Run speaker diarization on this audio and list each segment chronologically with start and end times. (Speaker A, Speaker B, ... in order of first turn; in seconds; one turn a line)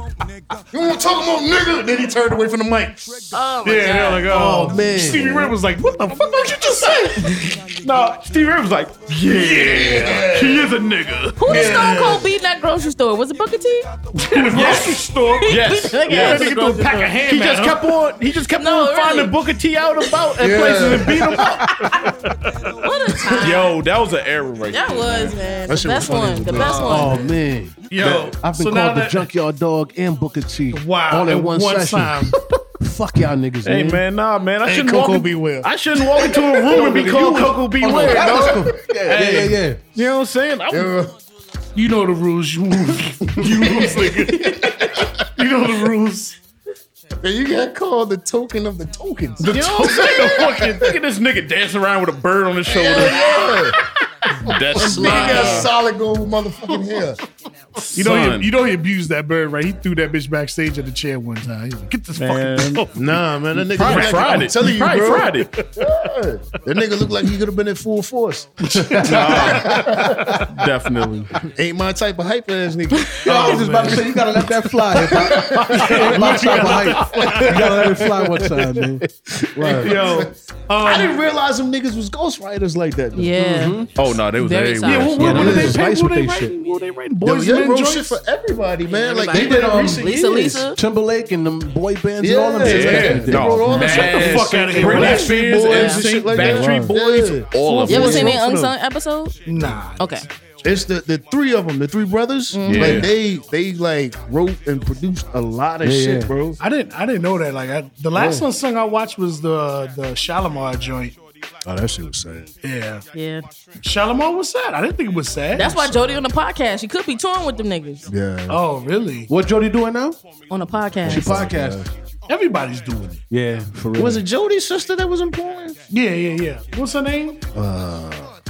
Speaker A: 0.7-3.1
Speaker B: 3.3-4.3
Speaker C: 3.6-7.4
Speaker D: 4.2-5.5
Speaker E: 7.3-11.8
Speaker A: 9.3-10.7
Speaker C: 9.6-10.1
Speaker B: 11.4-13.9
Speaker A: 11.4-12.3
Speaker C: 14.2-17.9
Speaker E: 14.3-16.6
Speaker B: 14.5-17.1
Speaker E: 17.2-22.1
Speaker B: 18.5-19.3
Speaker A: 20.4-21.6
Speaker C: 20.8-22.5
Speaker B: 22.8-23.7
Speaker E: 23.3-25.4
Speaker B: 24.7-27.3
Speaker A: 25.7-27.2
Speaker C: 26.5-27.2
Speaker D: 26.8-34.0
Speaker C: 27.9-29.3
Speaker C: 30.7-32.3
Speaker E: 33.6-40.9
Speaker A: 34.6-38.7
Speaker D: 36.7-39.8
Speaker C: 36.7-37.6
Speaker A: 40.7-41.1
Speaker C: 41.7-46.4
Speaker A: 43.4-45.2
Speaker A: 47.2-51.0
Speaker E: 49.4-53.6
Speaker C: 49.4-50.7
Speaker A: 52.6-53.8
Speaker E: 54.4-55.7
Speaker A: 54.7-57.2
Speaker B: 54.7-55.7
Speaker E: 57.8-58.5
Speaker C: 57.9-63.0
Speaker E: 62.1-62.9
Speaker A: 62.9-70.4
Speaker E: 63.7-65.5
Speaker C: 63.7-64.5
Speaker C: 68.6-70.4
Speaker D: 68.9-70.2
Speaker E: 69.0-71.3
Speaker A: 71.4-83.4
Speaker D: 73.2-79.0
Speaker C: 73.5-73.9
Speaker C: 75.4-78.1
Speaker D: 79.5-80.0
Speaker C: 79.6-81.2
Speaker B: 83.1-85.5
Speaker D: 83.4-83.9
Speaker E: 84.0-85.7
Speaker C: 84.8-88.2
Speaker D: 85.1-86.5
Speaker A: 85.3-85.8
Speaker A: 87.2-90.7
Speaker B: 88.8-90.8
Speaker D: 89.3-95.2
Speaker A: 92.2-98.7
Speaker E: 92.6-98.5
Speaker C: 93.7-95.3
Speaker B: 95.7-96.0
Speaker D: 96.3-97.0
Speaker B: 97.8-99.4
Speaker C: 99.5-100.2
Speaker B: 100.0-100.2
Speaker A: 100.6-106.6
Speaker B: 102.5-103.1
Speaker E: 102.6-103.1
Speaker D: 105.8-106.3
Speaker C: 106.6-111.1
Speaker D: 108.1-108.5
Speaker A: 111.6-112.5
Speaker C: 112.6-113.0
Speaker B: 113.1-113.4
Speaker C: 113.8-116.1
Speaker B: 115.5-118.0
Speaker A: 118.1-118.6
Speaker C: 118.5-119.3
Speaker D: 119.3-120.2
Speaker B: 120.5-121.5
Speaker D: 121.0-121.9
Speaker A: 121.1-121.9
Speaker C: 122.3-123.2
Speaker D: 123.3-124.2
Speaker A: 124.0-125.8
Speaker C: 125.9-127.4
Speaker A: 127.5-128.3